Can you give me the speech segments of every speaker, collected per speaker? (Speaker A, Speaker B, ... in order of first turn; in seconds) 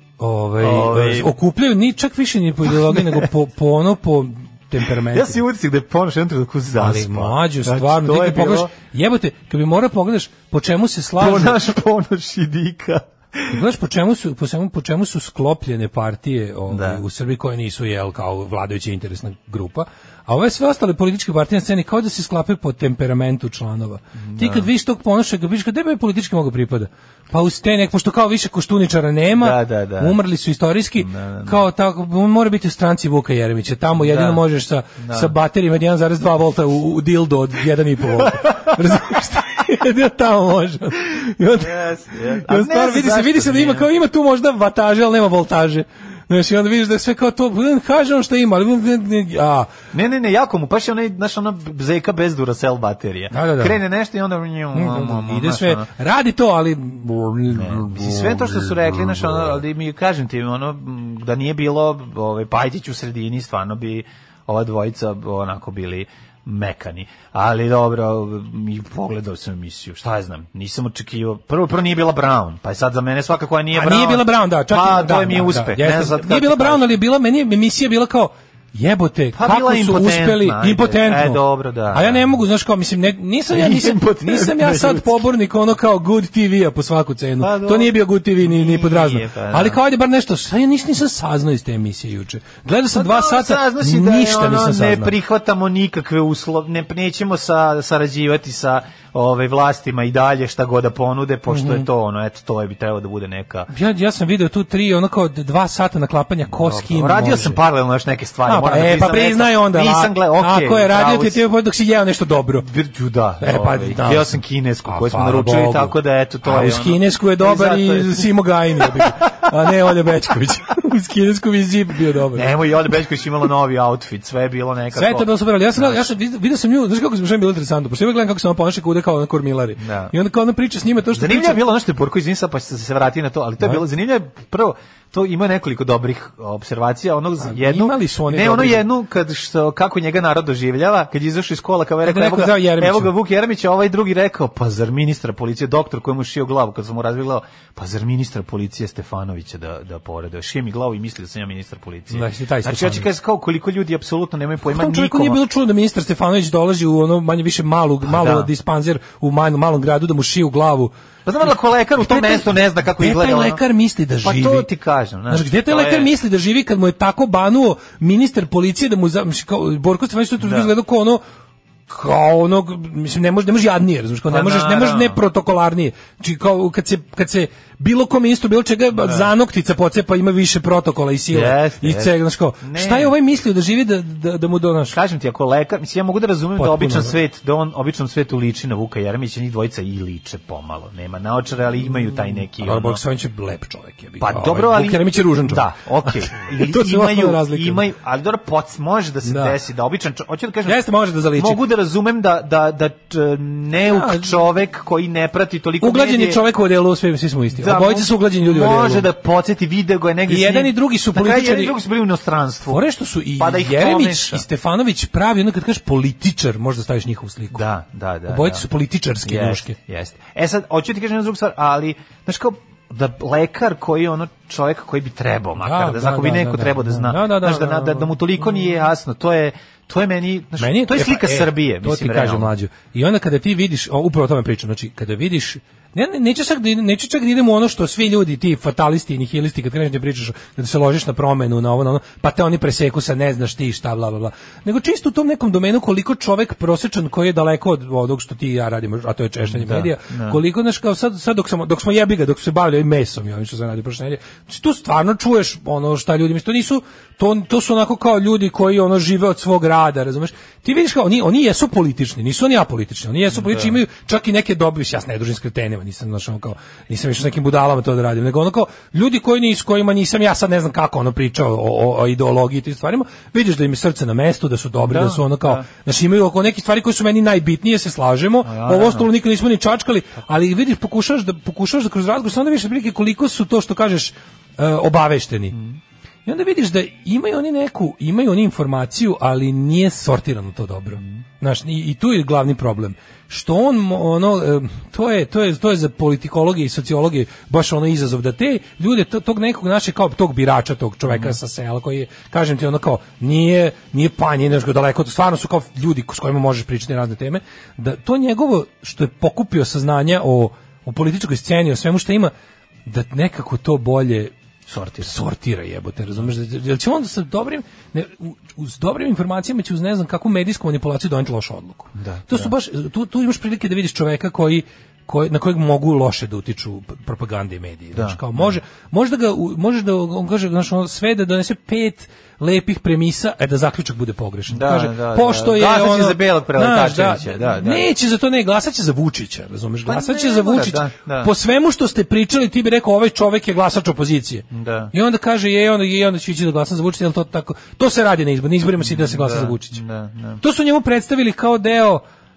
Speaker A: 0.2-5.4, 6.8-11.6, 13.5-41.8, 42.4-49.7, 53.3-53.8, 54.7-59.5, 73.7-95.1, 101.5-101.9, 103.7-107.6, 108.5-112.7, 113.4-122.5, 124.9-131.6, 137.4-138.9, 142.0-143.1, 152.1-153.1, 154.7-160.9, 162.0-164.7, 165.3-171.2, 171.9-184.9, 186.6-187.2, 192.3-197.8, 199.2-199.6, 200.7-201.6, 203.8-204.4, 205.8-209.1, 210.3-211.8, 212.7-217.6, 218.3-219.8, 225.6-228.1, 230.6-285.5, 286.2-312.3, 312.9-314.3, 315.0-349.8, 350.4-352.0
Speaker B: 0.6-1.3, 2.6-3.3, 5.1-8.7, 11.2-13.6, 16.7-17.0, 24.2-24.7, 29.3-30.2, 31.0-31.6, 33.9-34.4, 35.0-35.3, 41.5-43.9, 49.9-55.9, 57.5-76.9, 79.3-82.2, 83.5-85.2, 87.4-89.8, 92.9-103.7, 106.5-111.4, 112.5-119.3, 122.3-126.1, 129.8-130.1, 131.1-155.4, 158.0-158.5, 161.2-163.6, 164.2-166.1, 170.4-170.7, 174.3-175.2, 178.9-179.3, 181.3-183.1, 184.9-193.0, 194.2-206.4, 207.5-212.8, 213.4-214.4, 217.5-218.7, 219.2-232.5, 249.4-250.4, 263.3-263.8, 274.8-275.6, 278.4-279.1, 285.5-285.8, 301.1-301.4, 314.7-315.1, 321.9-322.5, 327.9-328.6, 334.5-337.9, 339.9-341.3, 344.5-344.9, 348.8-350.4